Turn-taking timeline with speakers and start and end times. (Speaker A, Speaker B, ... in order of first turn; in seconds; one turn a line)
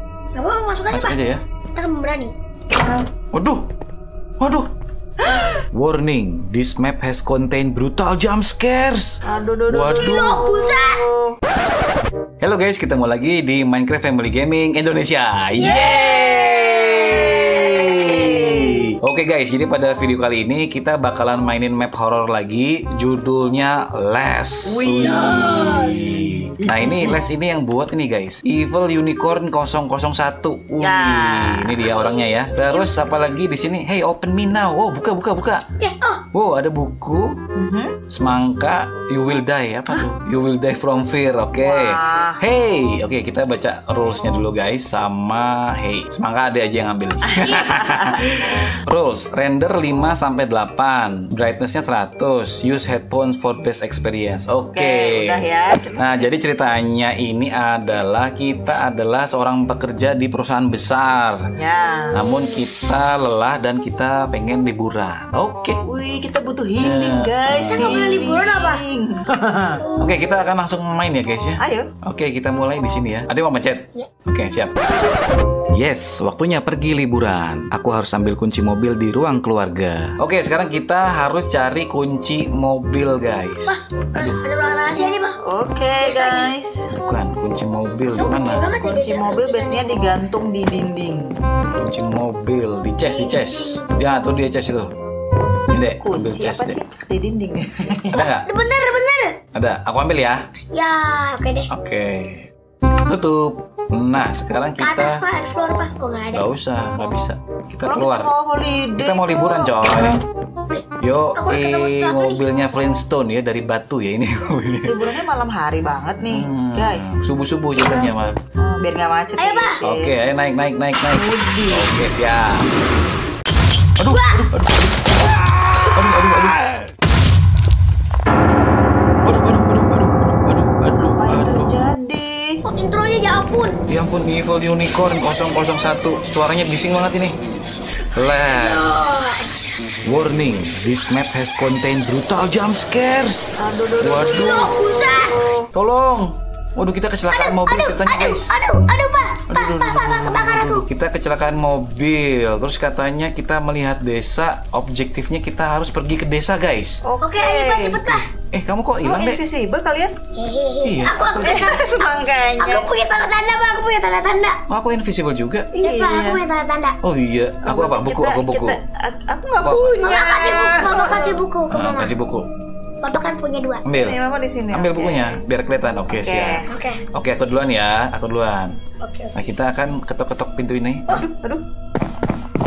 Speaker A: 0.3-1.2
Speaker B: 0.9-1.4
Speaker A: 1.8-2.3
Speaker B: 3.3-3.6
Speaker B: 4.4-4.7
Speaker B: 5.7-10.4
Speaker C: 9.2-11.4
Speaker A: 10.0-11.0
Speaker B: 12.4-35.6
Speaker A: 15.6-17.3
Speaker C: 17.4-18.9
Speaker C: 24.7-27.2
Speaker A: 25.0-26.1
Speaker C: 30.8-31.9
Speaker A: 32.7-33.0
Speaker A: 35.8-36.2
Speaker B: 36.3-37.3
Speaker C: 37.6-38.0
Speaker B: 38.1-55.4
Speaker C: 41.6-42.4
Speaker C: 47.3-48.5
Speaker C: 54.7-56.3
Speaker B: 56.0-61.4
Speaker C: 61.6-62.1
Speaker B: 62.1-65.8
Speaker C: 65.8-69.8
Speaker B: 66.8-67.9
Speaker A: 67.7-68.8
Speaker A: 69.8-70.3
Speaker B: 70.0-74.7
Speaker C: 71.6-71.9
Speaker B: 75.7-84.3
Speaker A: 83.7-85.4
Speaker C: 85.5-86.8
Speaker A: 86.0-86.5
Speaker B: 87.0-88.6
Speaker A: 88.2-90.1
Speaker C: 88.8-91.3
Speaker B: 91.8-94.9
Speaker A: 93.1-93.9
Speaker B: 95.7-96.8
Speaker C: 95.7-98.2
Speaker B: 98.1-98.5
Speaker A: 98.2-99.3
Speaker B: 99.5-100.4
Speaker A: 100.7-101.7
Speaker B: 101.7-102.5
Speaker B: 103.0-105.2
Speaker A: 104.8-106.5
Speaker B: 106.3-108.3
Speaker C: 107.8-109.8
Speaker B: 109.0-110.2
Speaker B: 111.0-115.0
Speaker A: 111.4-112.4
Speaker C: 114.9-117.2
Speaker B: 116.3-118.3
Speaker C: 118.6-120.1
Speaker A: 119.4-119.8
Speaker B: 119.8-122.7
Speaker C: 121.1-121.9
Speaker B: 124.0-126.7
Speaker A: 124.1-124.5
Speaker A: 125.5-126.0
Speaker B: 129.2-131.7
Speaker C: 131.2-132.6
Speaker A: 132.7-133.8
Speaker B: 133.9-137.4
Speaker B: 138.2-138.9
Speaker A: 138.4-139.5
Speaker B: 140.1-144.7
Speaker C: 143.6-145.7
Speaker A: 144.2-145.4
Speaker B: 145.7-148.5
Speaker A: 147.3-150.8
Speaker B: 149.5-157.0
Speaker C: 157.0-158.0
Speaker A: 157.2-158.2
Speaker B: 158.1-159.4
Speaker C: 159.0-160.2
Speaker A: 160.3-164.6
Speaker B: 160.8-161.8
Speaker C: 161.4-162.9
Speaker B: 164.7-165.7
Speaker A: 165.8-166.9
Speaker C: 165.8-166.4
Speaker B: 167.0-168.8
Speaker C: 167.6-171.4
Speaker B: 169.6-170.0
Speaker A: 170.0-172.1
Speaker B: 171.7-172.4
Speaker A: 173.0-173.8
Speaker B: 173.8-174.2
Speaker C: 173.9-175.4
Speaker B: 174.7-176.6
Speaker C: 176.1-176.7
Speaker A: 176.7-177.0
Speaker B: 177.1-178.8
Speaker A: 179.0-179.5
Speaker B: 179.3-181.1
Speaker C: 181.1-181.6